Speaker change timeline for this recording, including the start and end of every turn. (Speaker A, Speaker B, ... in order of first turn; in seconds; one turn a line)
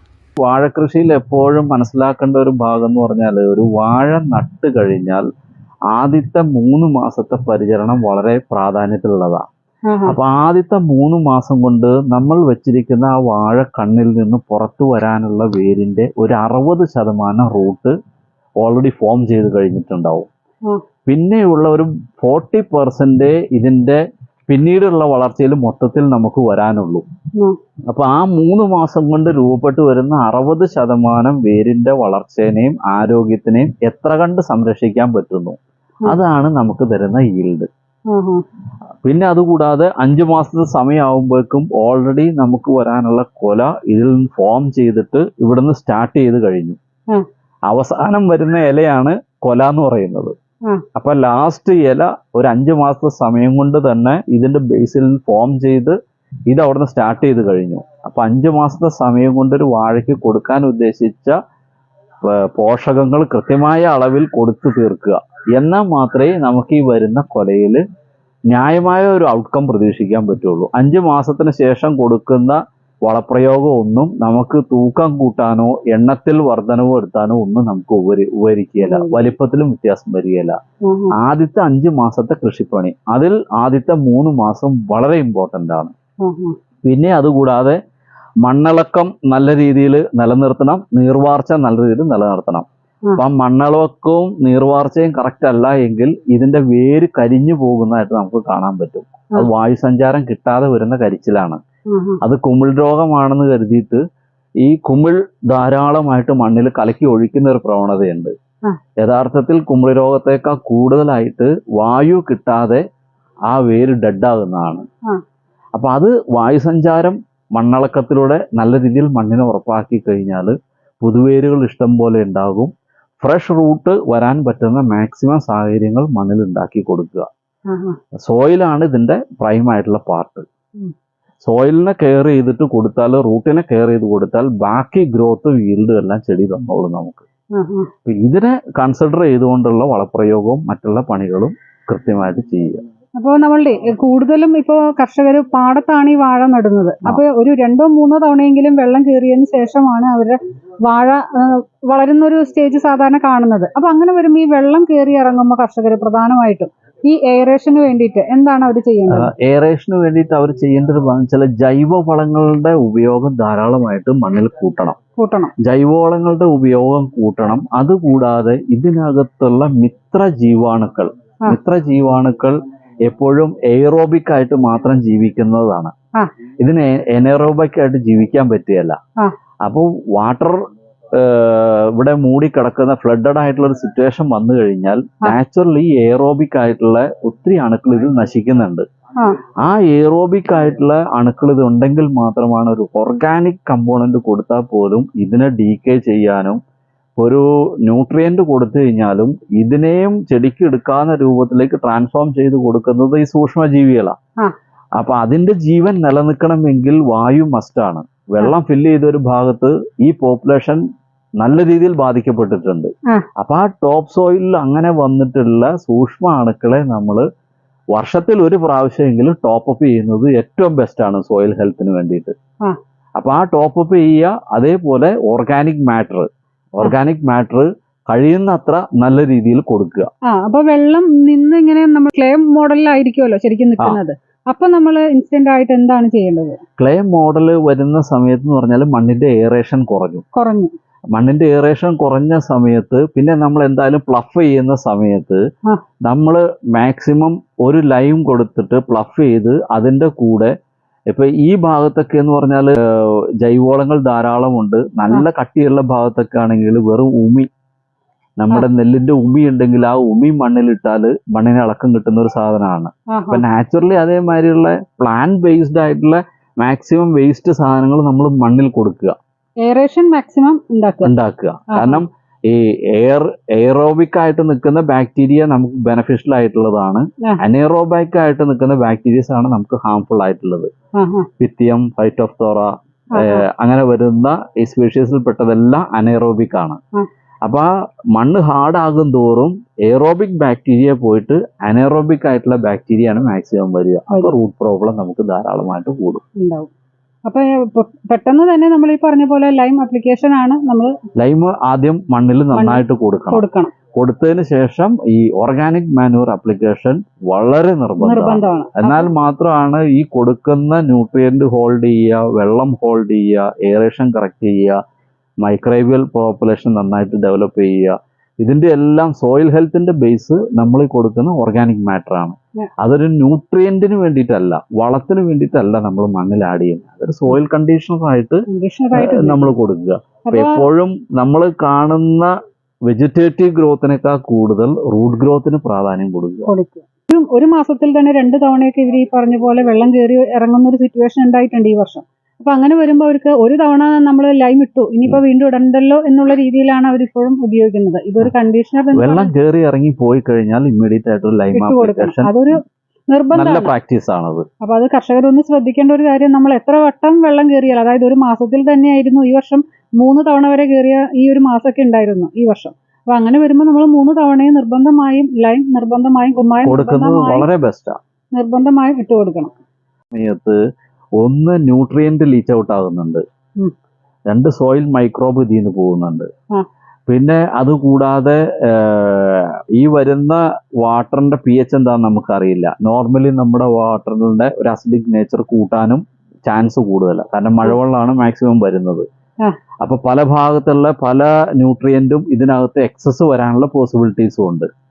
Speaker A: 0.4-5.2
Speaker A: 5.9-9.5
Speaker B: 9.9-10.2
Speaker A: 10.1-17.9
Speaker A: 18.6-20.3
Speaker A: 21.1-27.1
Speaker A: 27.9-37.7
Speaker B: 38.1-38.4
Speaker A: 39.0-46.8
Speaker A: 47.7-50.3
Speaker A: 51.0-56.0
Speaker A: 56.5-61.4
Speaker A: 62.2-67.8
Speaker A: 68.5-80.6
Speaker B: 78.8-79.2
Speaker B: 80.9-81.1
Speaker A: 81.2-85.9
Speaker B: 86.2-86.5
Speaker A: 86.8-87.8
Speaker A: 88.4-92.7
Speaker A: 93.2-101.6
Speaker B: 101.9-102.2
Speaker A: 102.2-104.0
Speaker A: 104.6-108.3
Speaker A: 109.0-112.8
Speaker A: 113.5-114.8
Speaker A: 115.8-127.3
Speaker B: 127.7-128.0
Speaker A: 128.2-130.4
Speaker A: 131.4-137.2
Speaker B: 137.6-137.9
Speaker A: 138.1-142.8
Speaker B: 143.2-159.3
Speaker A: 159.1-165.0
Speaker B: 165.2-165.5
Speaker A: 165.6-175.9
Speaker A: 176.6-179.0
Speaker A: 179.7-180.6
Speaker A: 181.1-188.8
Speaker A: 189.6-196.6
Speaker A: 197.2-204.1
Speaker A: 205.0-210.8
Speaker A: 211.4-217.2
Speaker A: 217.9-222.3
Speaker A: 223.2-230.1
Speaker B: 230.3-236.6
Speaker A: 236.8-240.2
Speaker B: 240.3-240.7
Speaker A: 241.2-245.4
Speaker A: 246.1-250.5
Speaker A: 251.1-257.5
Speaker A: 258.4-269.1
Speaker B: 263.1-263.4
Speaker B: 269.6-271.1
Speaker A: 271.0-280.7
Speaker B: 271.7-272.0
Speaker B: 281.0-281.3
Speaker A: 281.4-286.8
Speaker B: 283.1-283.4
Speaker A: 287.4-296.2
Speaker B: 294.1-294.4
Speaker B: 296.4-296.7
Speaker B: 297.3-300.9
Speaker A: 301.2-314.8
Speaker B: 302.5-303.7
Speaker B: 308.0-309.1
Speaker A: 315.4-332.3
Speaker B: 328.5-329.5
Speaker B: 330.3-330.6
Speaker A: 332.9-336.5
Speaker B: 336.5-349.3
Speaker A: 348.9-352.6
Speaker B: 351.5-353.7
Speaker A: 353.3-354.4
Speaker B: 354.6-367.5
Speaker A: 366.6-368.0
Speaker B: 368.4-369.5
Speaker A: 370.1-370.6
Speaker A: 371.2-373.2
Speaker A: 374.3-376.3
Speaker A: 377.1-389.1
Speaker A: 389.8-394.7